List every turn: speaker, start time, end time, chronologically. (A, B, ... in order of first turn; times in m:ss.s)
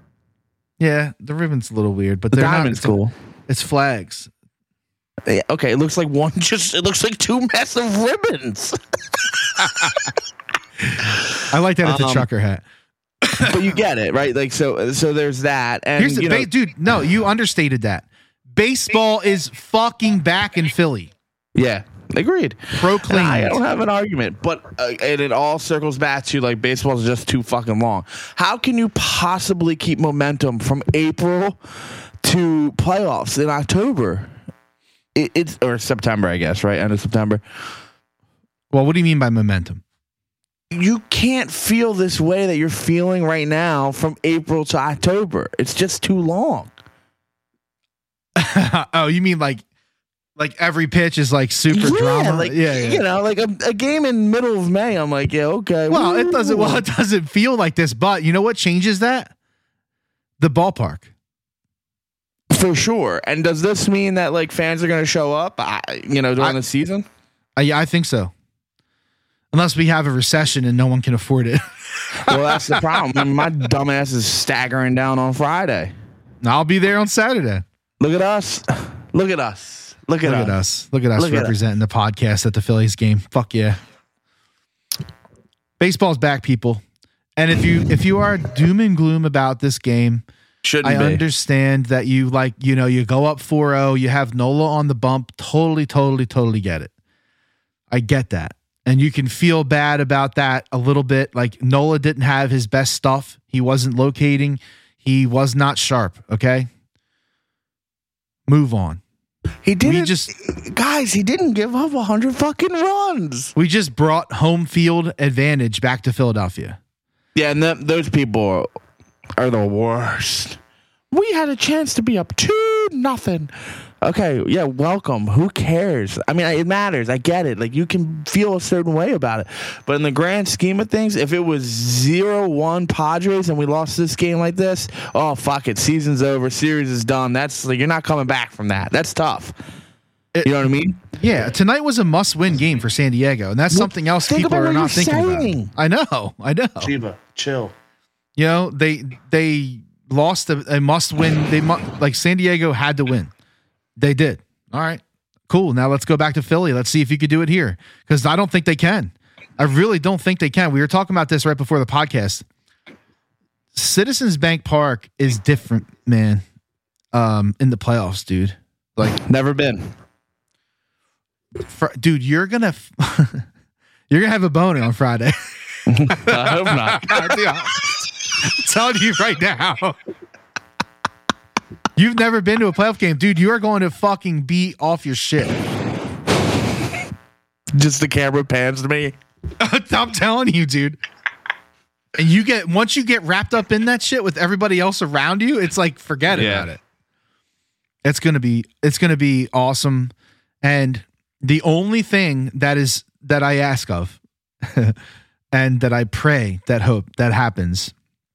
0:00.8-0:03.0 A
0:02.3-0:03.1 B
0:03.5-0:04.3 A
0:05.2-0:10.0 B
0:11.5-0:12.6 A
0:11.8-0:12.2 B
0:13.4-0:16.5 B
0:16.0-0:21.1 A
0:21.5-0:31.6 B
0:22.8-0:23.6 A
0:32.2-0:34.3 B
0:35.1-0:37.4 B
0:38.7-0:39.8 A
0:40.7-0:46.7 B
0:48.4-0:49.6 A
0:50.4-0:53.0 A
0:51.7-0:56.8 B
0:55.9-0:59.3 A
1:00.4-1:01.1 A
1:02.5-1:07.0 B
1:07.6-1:08.3 A
1:09.5-1:13.3 A
1:12.3-1:15.9 B
1:16.4-1:17.6 A
1:18.0-1:20.6 B
1:20.2-1:23.8 A
1:21.2-1:21.5 B
1:25.8-1:26.8 A
1:27.4-1:30.2 A
1:30.6-1:31.2 B
1:30.8-1:36.9 A
1:37.9-1:46.7 A
1:48.5-1:49.0 A
1:49.6-1:53.5 B
1:49.8-1:50.3 A
1:53.6-1:56.8 A
1:57.3-1:58.7 B
1:59.4-2:00.6 B
2:01.1-2:19.5 B
2:20.3-2:26.9 A
2:20.4-2:21.0 B
2:23.7-2:25.7 B
2:26.8-2:27.7 B
2:28.4-2:33.3 A
2:34.0-2:42.4 A
2:43.7-2:46.4 A
2:47.1-2:49.2 A
2:49.1-2:49.9 B
2:51.7-2:53.4 A
2:54.1-2:55.4 A
2:55.9-2:57.4 B
2:56.1-2:57.8 A
2:58.4-3:00.0 A
3:02.0-3:05.5 A
3:07.7-3:09.2 B
3:09.6-3:11.0 A
3:12.2-3:16.8 A
3:16.3-3:16.7 B
3:18.0-3:25.0 A
3:25.5-3:27.9 A